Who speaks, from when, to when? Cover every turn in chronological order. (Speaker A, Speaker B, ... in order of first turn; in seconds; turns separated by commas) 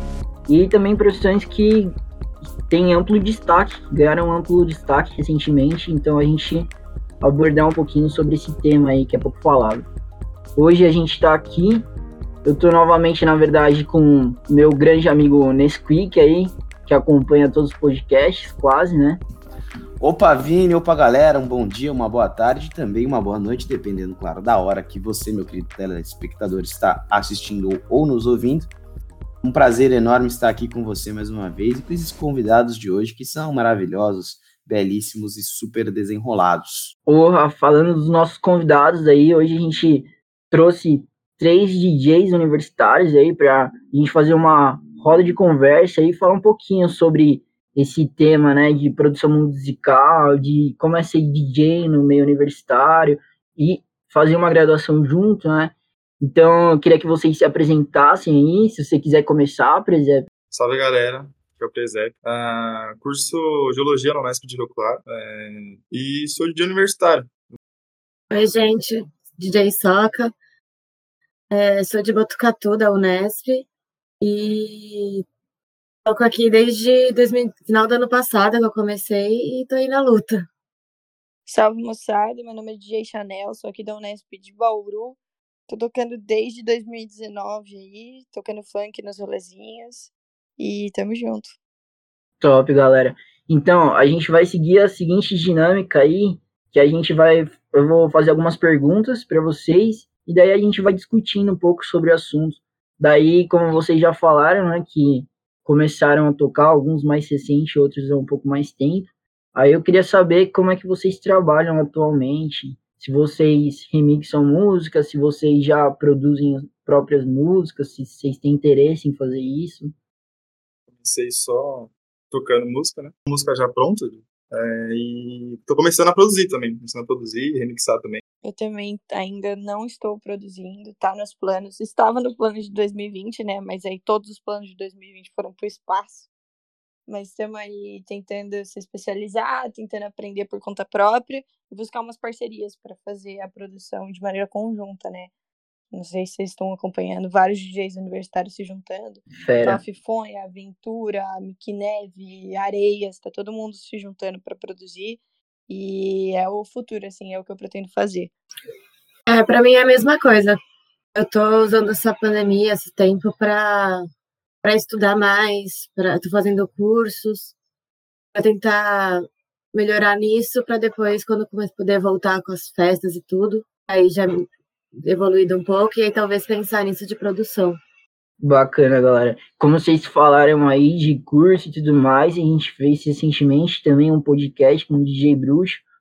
Speaker A: 0.5-1.9, Speaker A: 2.7-9.9, Speaker A: 10.6-11.8, Speaker A: 12.4-19.2, Speaker B: 20.0-28.7, Speaker B: 29.4-36.9, Speaker A: 37.0-60.3, Speaker C: 60.5-67.5, Speaker D: 68.3-70.3, Speaker D: 71.5-73.7, Speaker D: 74.2-75.2, Speaker D: 76.0-80.5, Speaker E: 81.5-91.5, Speaker A: 92.4-119.9, Speaker C: 120.9-128.2, Speaker E: 128.4-136.3, Speaker E: 137.1-145.3, Speaker E: 145.9-158.3, Speaker A: 149.4-149.8, Speaker D: 159.3-160.6, Speaker D: 161.1-164.1, Speaker D: 164.6-167.5, Speaker D: 168.3-177.8, Speaker A: 178.4-185.8